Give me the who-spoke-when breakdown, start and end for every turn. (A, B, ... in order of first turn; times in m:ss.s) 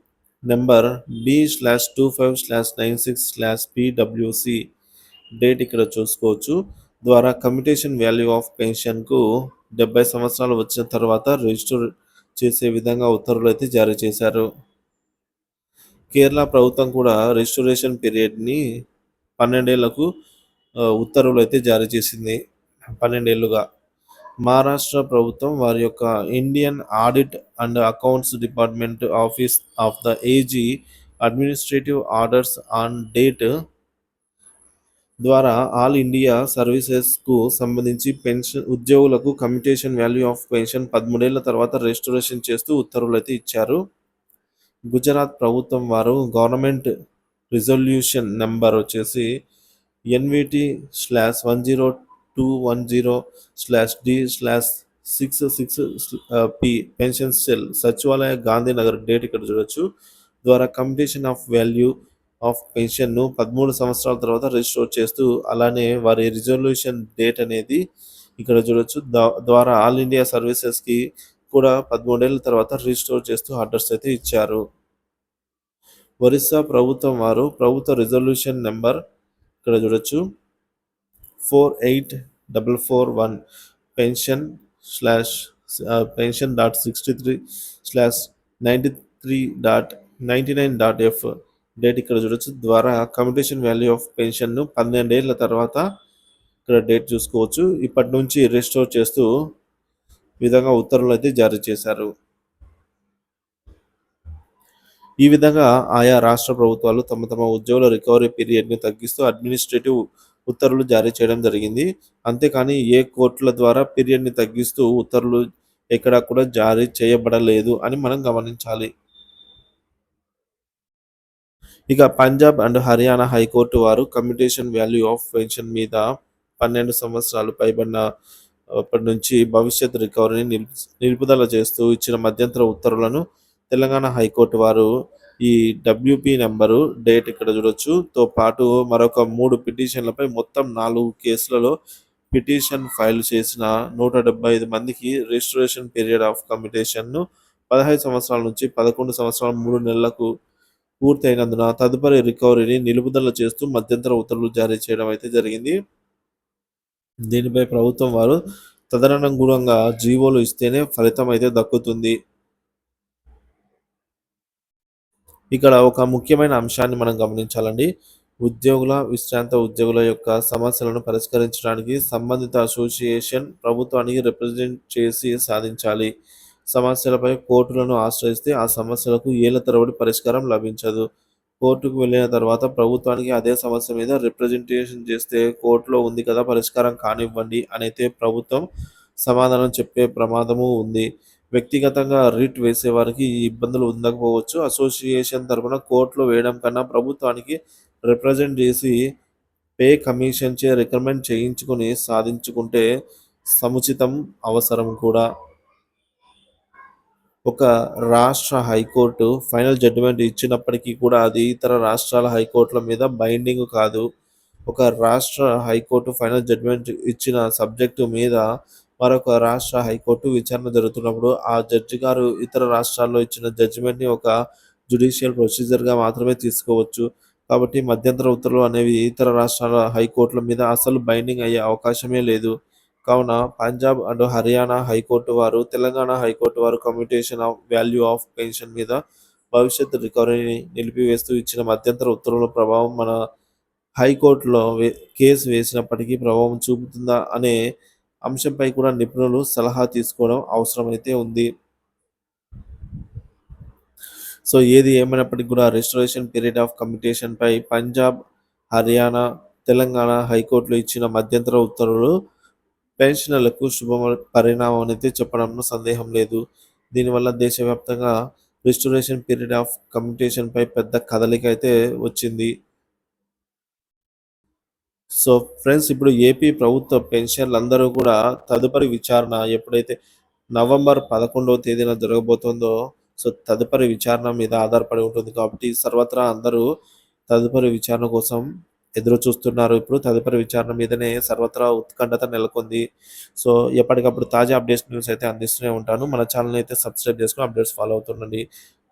0:00.5-0:04.6 A
0:05.4-0:09.2 A
0:09.8-0:11.8 A
0:12.4-0:14.5 A
0:16.1-0:18.6 A
0:19.4-0:20.1 A
0:21.0-0:22.4 A
0:23.0-0:23.6 A
0:24.4-0:30.7 A
0:31.2-0:33.5 A
0:35.2-0:43.8 A
0:44.9-0:46.9 A
0:47.5-0:49.3 A
0:50.1-0:59.8 A
1:00.4-1:01.9 A
1:02.5-1:07.8 A
1:08.4-1:11.0 A
1:11.5-1:14.6 A
1:16.2-1:19.0 A
1:19.6-1:20.2 A
1:21.4-1:23.4 A
1:24.0-1:31.3 A
1:31.8-1:35.8 A
1:36.7-1:39.3 A
1:40.4-1:42.1 A
1:45.2-1:55.4 A
1:55.9-1:58.9 A
2:01.9-2:06.0 A
2:06.6-2:08.0 A
2:08.8-2:14.9 A
2:15.4-2:21.7 A
2:22.3-2:30.3 A
2:31.0-2:35.7 A
2:37.3-2:38.4 A
2:38.9-2:42.1 A
2:45.5-2:47.9 A
2:48.4-2:56.1 A
2:56.7-3:01.0 A
3:01.6-3:08.6 A
3:09.2-3:19.0 A
3:19.8-3:22.8 A
3:23.5-3:25.2 A
3:27.5-3:34.0 A
3:34.7-3:38.4 A
3:39.0-3:44.3 A
3:44.9-3:52.5 A
3:53.1-3:59.0 A
3:59.5-4:03.1 A
4:04.0-4:07.5 A
4:08.3-4:11.5 A
4:14.5-4:18.1 A
4:18.7-4:22.1 A
4:23.0-4:26.4 A
4:26.9-4:28.1 A
4:28.7-4:32.5 A
4:35.2-4:39.9 A
4:40.6-4:46.6 A
4:47.3-4:48.4 A
4:49.0-4:52.8 A
4:53.4-4:58.4 A